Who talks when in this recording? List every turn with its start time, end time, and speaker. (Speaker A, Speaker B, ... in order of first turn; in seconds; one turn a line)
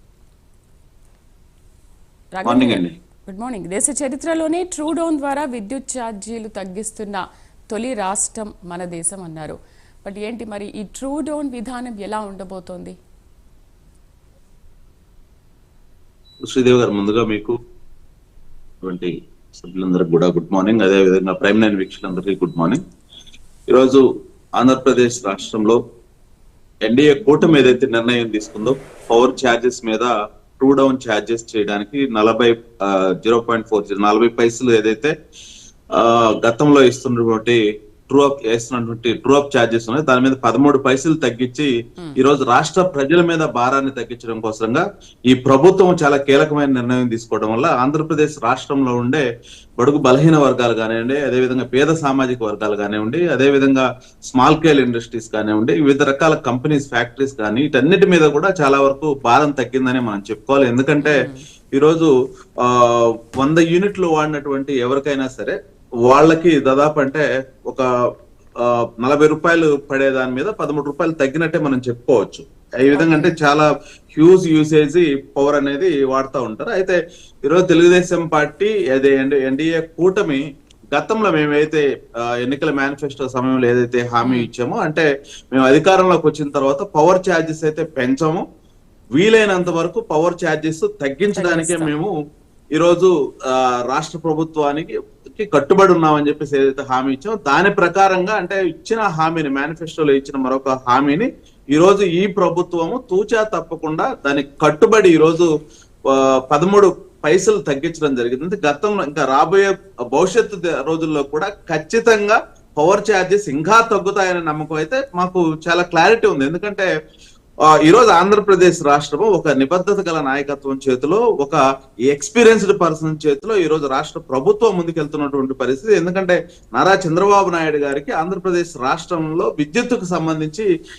Speaker A: 2.3-12.9
Speaker B: 2.4-3.0
Speaker B: 16.5-17.5
Speaker B: 18.8-22.8
Speaker B: 23.7-24.0
Speaker B: 24.6-25.8
Speaker B: 26.9-35.1
Speaker B: 35.9-49.2
Speaker B: 49.8-62.1
Speaker A: 61.0-61.4
Speaker B: 62.6-67.9
Speaker B: 68.6-80.4
Speaker A: 72.9-73.3
Speaker B: 80.9-81.8
Speaker B: 82.4-88.4
Speaker A: 84.2-84.5
Speaker B: 89.2-92.1
Speaker A: 91.3-91.9
Speaker B: 92.7-105.5
Speaker B: 106.1-116.9
Speaker B: 117.8-121.6
Speaker B: 122.1-130.7